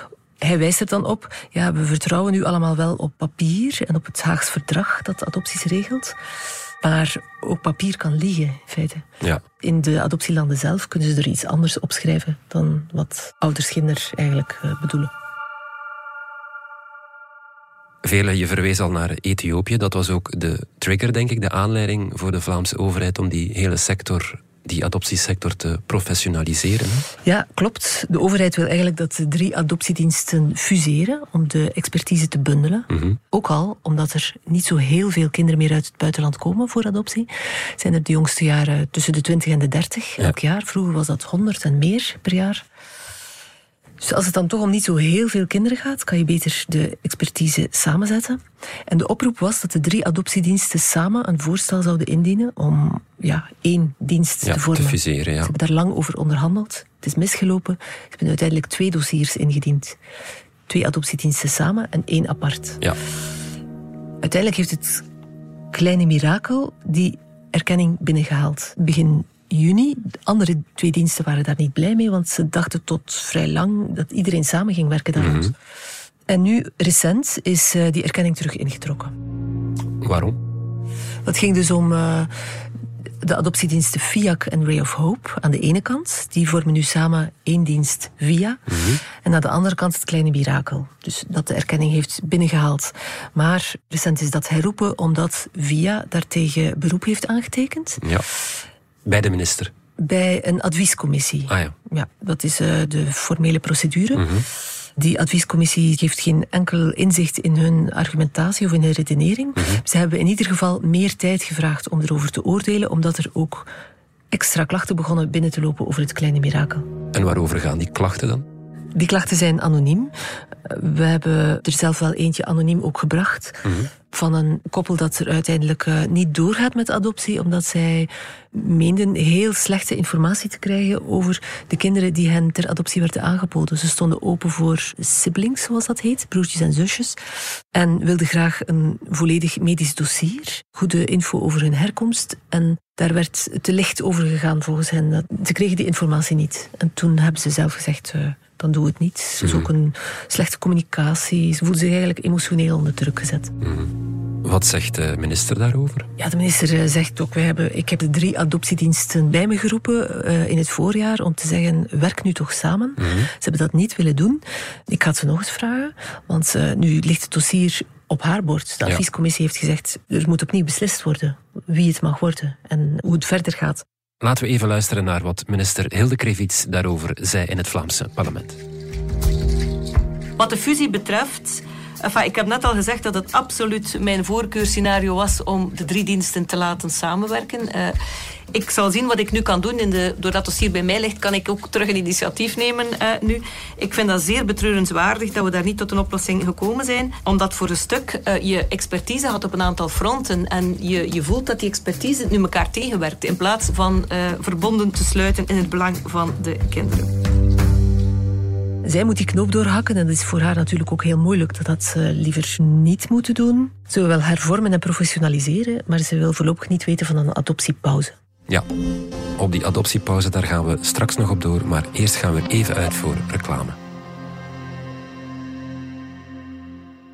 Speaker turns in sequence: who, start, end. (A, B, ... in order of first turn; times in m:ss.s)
0:00.4-0:06.2 A
0:06.8-0:09.0 A
0:09.6-0:15.1 A
0:18.0-0:27.1 B
0:27.2-0:42.6 A
0:32.9-0:33.2 B
0:44.0-1:00.0 A
0:54.4-0:55.5 B
1:00.7-1:02.8 A
1:04.2-1:05.0 A
1:05.7-1:15.5 A
1:15.2-1:15.5 B
1:16.3-1:19.1 A
1:20.0-1:20.4 B
1:21.2-1:22.3 A
1:23.2-1:28.6 A
1:28.7-1:29.0 B
1:29.1-1:38.0 A
1:39.0-1:39.7 B
1:40.0-1:44.2 A
1:41.5-1:41.7 B
1:44.1-1:44.4 B
1:45.0-1:53.7 A
1:49.6-1:49.8 B
1:54.3-1:56.9 A
1:57.1-1:58.5 B
1:58.9-2:00.1 A
2:00.6-2:17.2 A
2:03.6-2:03.9 B
2:17.7-2:33.5 A
2:29.4-2:29.7 B
2:33.6-2:36.1 B
2:36.2-2:53.8 A
2:43.0-2:43.3 B
2:54.2-2:58.6 B
3:00.4-3:07.9 C
3:08.5-3:27.2 C
3:28.8-3:38.1 A
3:39.4-3:43.8 B